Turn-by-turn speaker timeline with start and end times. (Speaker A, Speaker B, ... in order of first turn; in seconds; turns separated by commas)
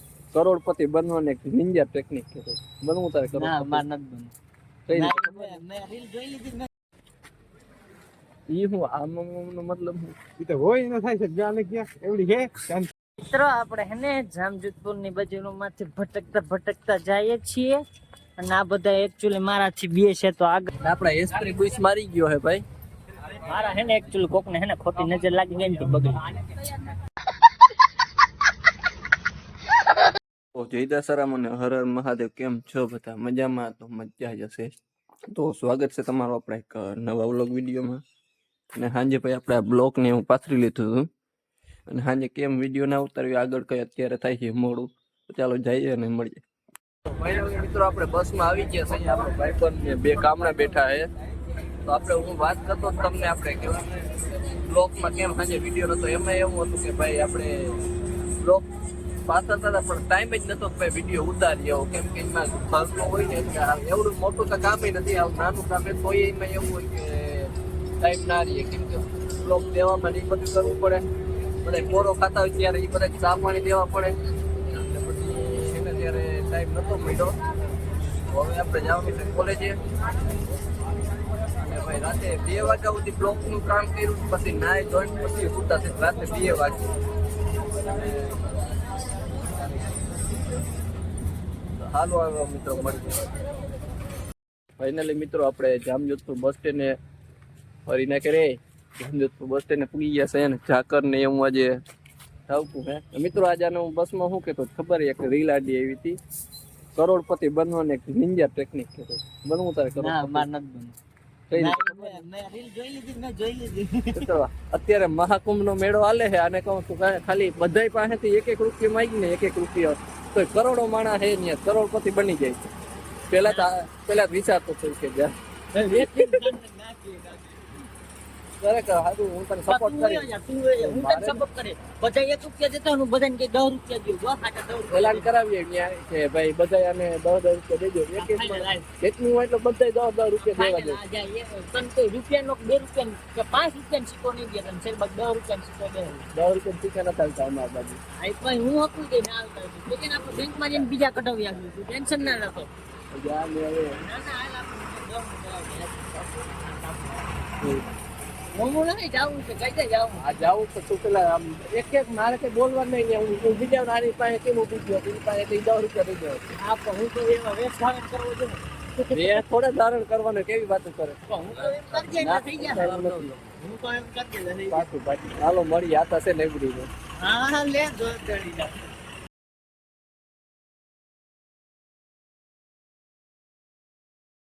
Speaker A: 0.3-3.9, Speaker B: 3.3-4.3, Speaker A: 4.9-5.6, Speaker B: 4.9-6.7, Speaker A: 8.5-10.2, Speaker C: 10.4-12.9, Speaker B: 13.2-17.8, Speaker B: 18.4-20.7, Speaker A: 20.8-22.6, Speaker B: 23.5-26.8, Speaker A: 30.5-34.7, Speaker A: 35.3-38.0, Speaker A: 38.7-41.1, Speaker A: 41.9-46.4, Speaker A: 47.1-51.1, Speaker A: 51.9-53.9, Speaker A: 54.5-57.8, Speaker A: 58.4-58.7, Speaker A: 59.3-71.1, Speaker A: 71.6-77.4, Speaker A: 78.3-79.8, Speaker A: 81.6-86.9, Speaker A: 87.9-88.3, Speaker A: 91.8-93.3, Speaker A: 94.8-97.0, Speaker A: 97.9-101.8, Speaker A: 102.5-106.2, Speaker A: 107.0-110.5, Speaker B: 110.0-111.0, Speaker A: 111.5-112.2, Speaker B: 111.5-114.3, Speaker A: 114.1-122.7, Speaker A: 123.3-125.3, Speaker B: 123.4-123.7, Speaker B: 125.7-127.8, Speaker A: 125.9-126.5, Speaker A: 128.6-131.4, Speaker B: 129.7-135.3, Speaker A: 134.9-141.0, Speaker B: 138.2-138.8, Speaker B: 140.4-146.3, Speaker A: 146.3-148.0, Speaker B: 148.2-152.7, Speaker A: 153.1-154.0, Speaker B: 153.9-157.5, Speaker A: 157.6-157.9, Speaker B: 158.5-160.2, Speaker A: 160.2-166.6, Speaker B: 166.6-169.4, Speaker A: 169.1-171.2, Speaker B: 171.3-175.3, Speaker A: 171.9-173.3, Speaker A: 175.3-176.9, Speaker B: 177.2-178.8